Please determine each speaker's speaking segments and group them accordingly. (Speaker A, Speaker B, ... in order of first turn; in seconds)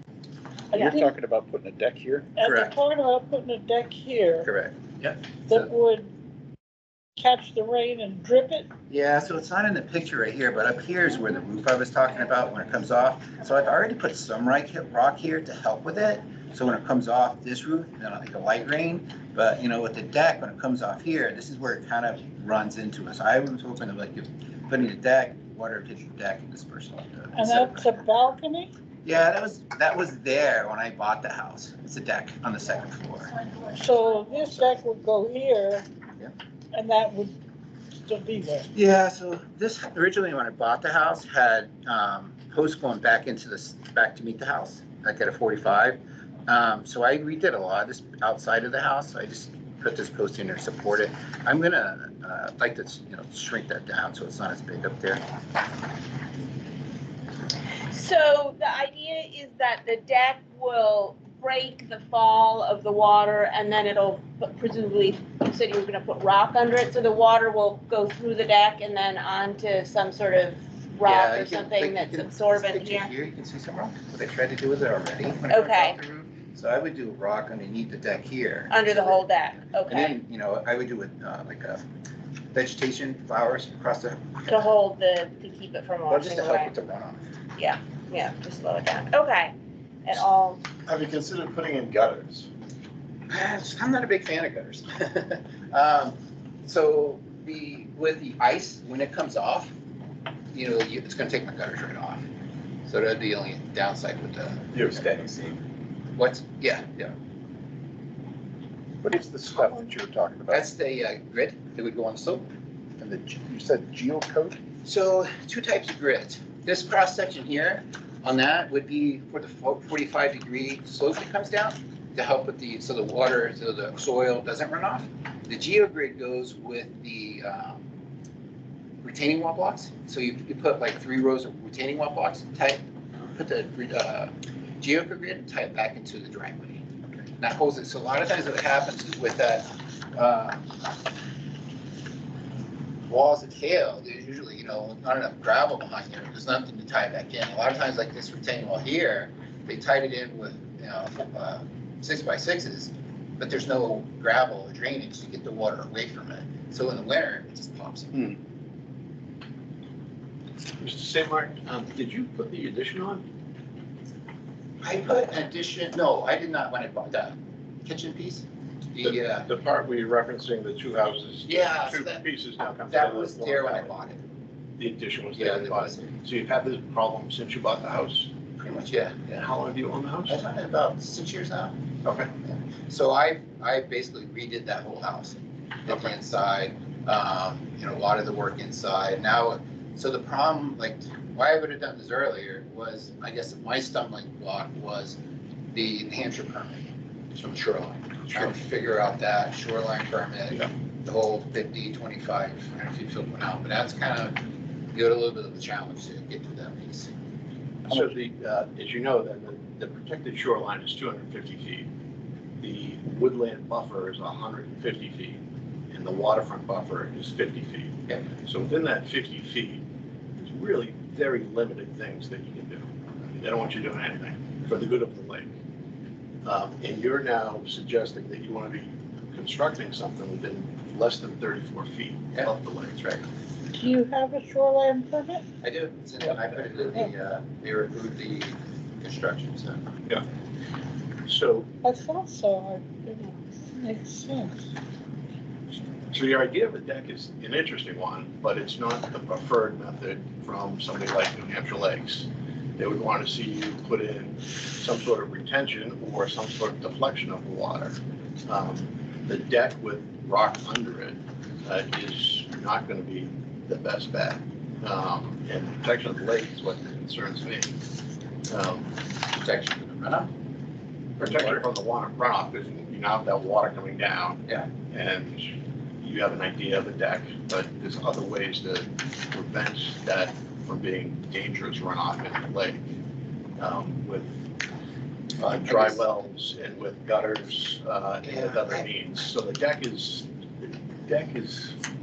Speaker A: 0.7-1.0, 2.4-4.5, 5.5-6.1, 7.2-8.7, 27.3-28.7, 33.6-35.9, 36.7-37.4, 38.0-38.7, 233.7-235.4, 241.8-244.7
Speaker B: 0.9-2.3, 90.8-92.5, 104.7-105.6, 109.0-110.7, 113.0-114.6
Speaker C: 2.4-2.7, 4.4-5.5, 8.9-27.9, 29.0-33.3, 38.7-55.2, 71.0-81.8, 82.5-84.7, 86.1-87.2, 93.3-99.7, 100.5-102.2, 102.8-105.0, 106.2-107.1, 110.5-112.5, 114.8-127.8, 129.0-136.8, 137.4-140.7, 143.1-158.3, 164.8-169.5, 171.4-172.2, 172.9-174.2, 175.3-176.1, 178.6-179.5, 180.3-181.8, 182.4-195.2, 195.7-196.8, 197.3-204.4, 204.9-207.1, 235.6-239.9, 269.3-270.3, 271.2-271.6, 285.4-286.0, 288.2-288.8
Speaker D: 57.9-73.1, 75.5-76.0, 78.7-80.2, 84.5-86.7, 87.6-89.5, 90.0-90.6
Speaker E: 160.8-163.2, 169.0-173.9, 174.8-178.3, 179.3-180.4, 182.0-182.3, 207.9-211.9, 212.6-219.8, 220.4-225.5, 226.4-233.3, 241.2-241.7, 246.1-267.8, 268.5-269.0, 271.2-282.9, 283.6-284.4, 285.4-291.8